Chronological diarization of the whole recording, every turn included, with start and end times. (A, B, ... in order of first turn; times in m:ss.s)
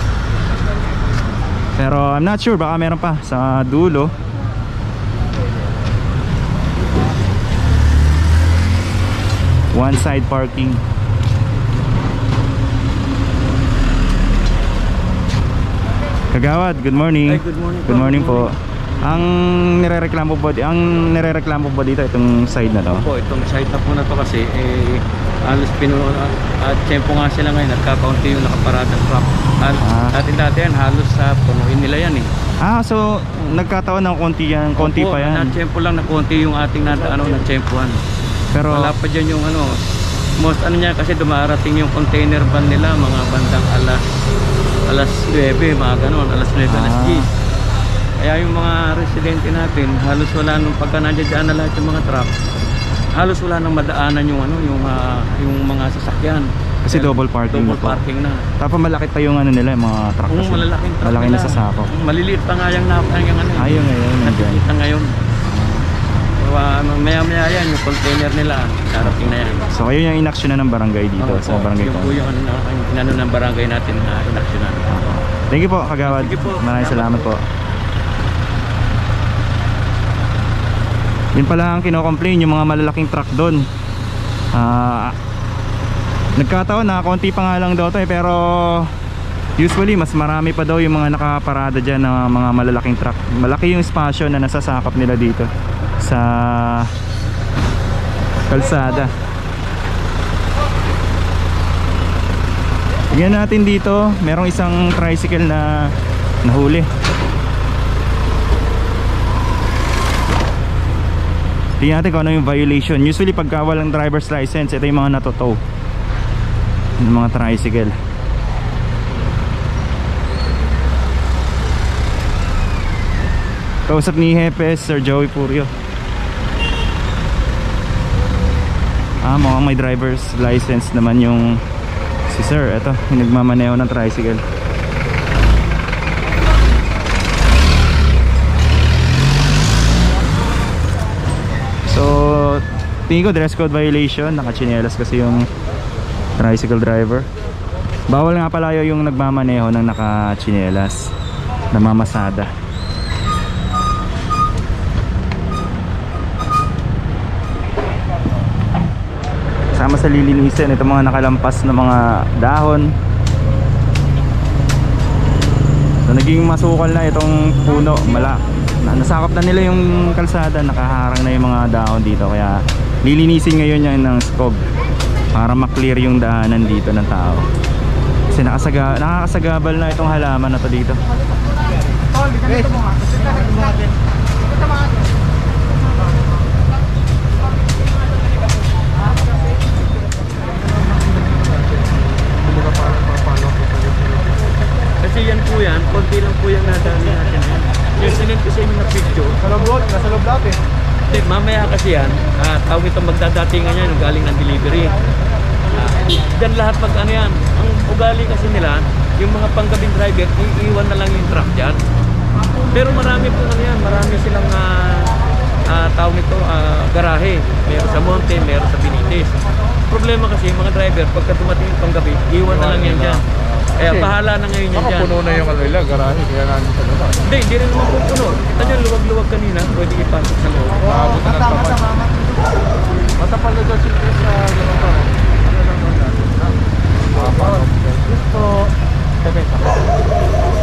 0:01.8-0:04.1 A
0:09.7-0:10.8 A
0:16.3-0:18.5 A
0:17.3-0:19.2 B
0:19.1-0:23.1 A
0:22.9-0:32.3 B
0:29.8-0:30.2 A
0:32.6-0:35.6 A
0:34.8-0:38.0 B
0:38.5-0:39.0 A
0:38.7-0:39.7 B
0:40.4-0:44.0 B
0:44.9-0:47.3 B
0:46.6-0:47.2 A
0:48.2-0:52.3 B
0:53.1-0:58.5 B
0:56.8-0:58.0 A
0:58.6-1:01.9 A
1:00.3-1:05.1 B
1:03.6-1:04.6 A
1:05.5-1:05.9 A
1:06.4-1:09.7 B
1:09.0-1:12.2 A
1:11.2-1:14.9 B
1:14.9-1:17.4 A
1:16.0-1:17.3 B
1:21.4-1:23.6 A
1:24.5-1:25.1 A
1:26.4-1:28.9 A
1:29.6-1:35.5 A
1:36.0-1:36.9 A
1:38.5-1:39.1 A
1:43.1-1:45.9 A
1:46.4-1:46.9 A
1:51.8-1:55.6 A
1:57.0-1:57.9 A
2:03.9-2:05.7 A
2:09.2-2:11.6 A
2:12.3-2:14.4 A
2:21.9-2:25.5 A
2:26.4-2:27.3 A
2:28.1-2:31.1 A
2:31.7-2:32.5 A
2:39.7-2:42.9 A
2:46.1-2:54.6 A
2:55.3-2:57.4 A
2:58.3-3:01.0 A
3:12.2-3:14.3 C
3:15.0-3:19.4 B
3:19.7-3:20.5 C
3:21.1-3:25.0 B
3:25.7-3:31.8 B
3:32.7-3:39.4 B
3:39.9-3:43.2 B
3:42.5-3:43.2 C
3:43.8-3:45.1 B
3:43.8-3:44.1 C
3:44.7-3:47.2 C
3:47.2-3:51.0 B
3:50.8-3:52.1 C
3:53.2-3:56.5 C
3:57.1-3:57.9 C